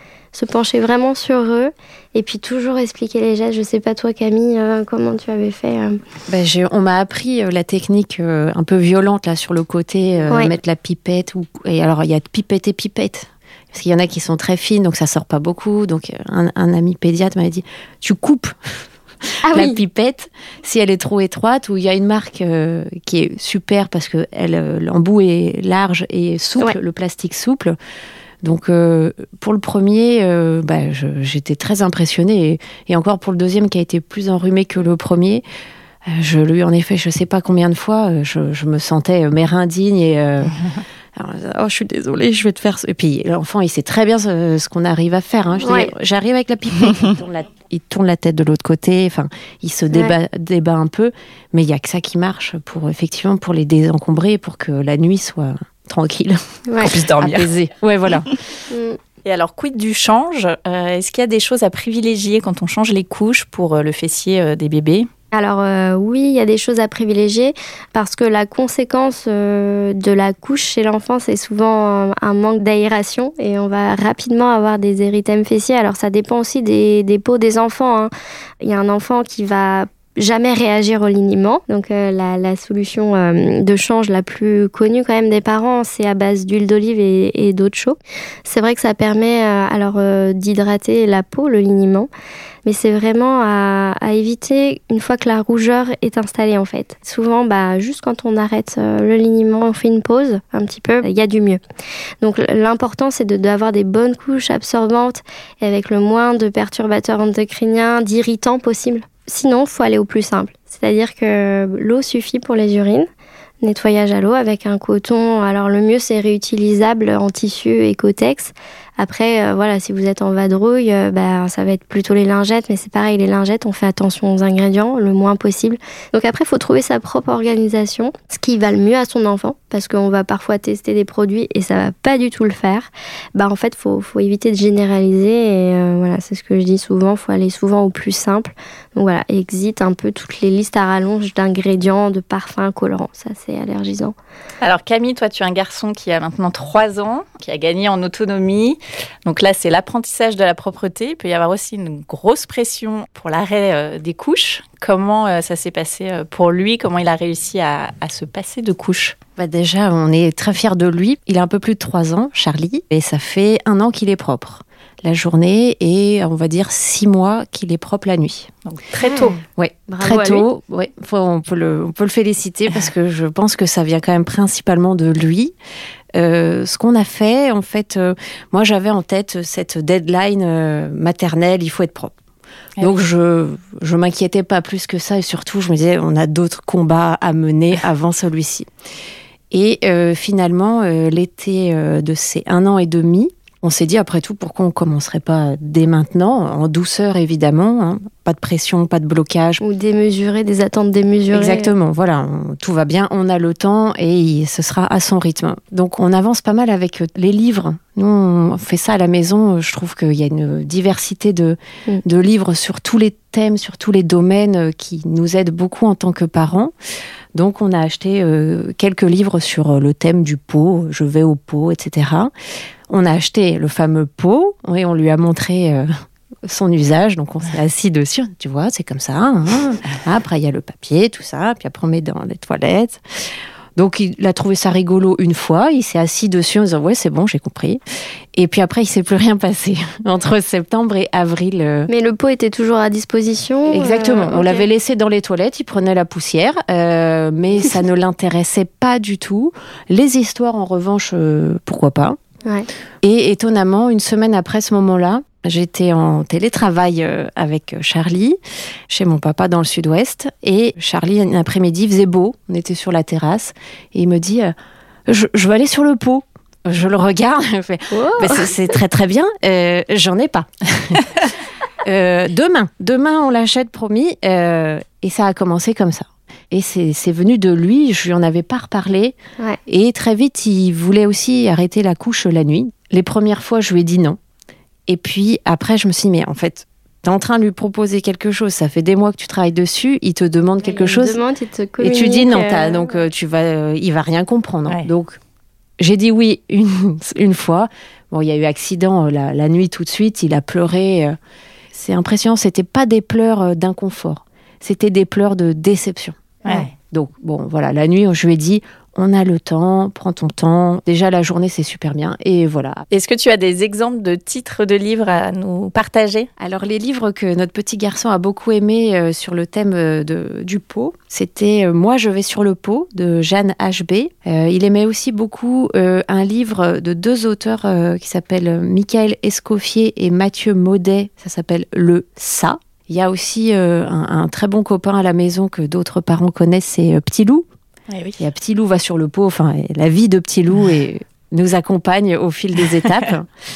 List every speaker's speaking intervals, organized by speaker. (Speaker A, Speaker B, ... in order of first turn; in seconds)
Speaker A: 0.3-6.0, 19.4-19.8, 45.6-45.9, 56.6-56.9, 58.7-59.0, 65.3-92.1, 92.6-101.6, 102.2-113.1, 113.6-144.1, 169.0-169.4, 169.9-170.5, 199.6-201.7, 241.9-244.7, 267.9-268.5, 290.6-292.9
Speaker B: 6.3-18.9, 19.5-27.8, 28.4-35.4, 36.0-40.6, 41.1-58.3, 159.4-168.5, 169.5-175.5, 176.1-182.1, 182.8-188.7, 189.5-199.6, 201.3-216.7, 217.3-222.3, 222.9-225.9, 226.4-233.0, 233.8-237.8, 238.3-241.9, 243.7-252.2, 253.0-258.4, 258.9-264.5, 265.1-271.3, 271.8-284.2, 284.9-291.2, 291.8-295.2, 295.8-301.2, 301.7-312.8, 316.4-337.5, 338.2-343.3
Speaker C: 56.8-57.5, 59.2-65.1, 144.6-159.2, 168.6-169.4, 182.8-183.0, 306.4-306.7, 312.9-316.3, 337.9-338.2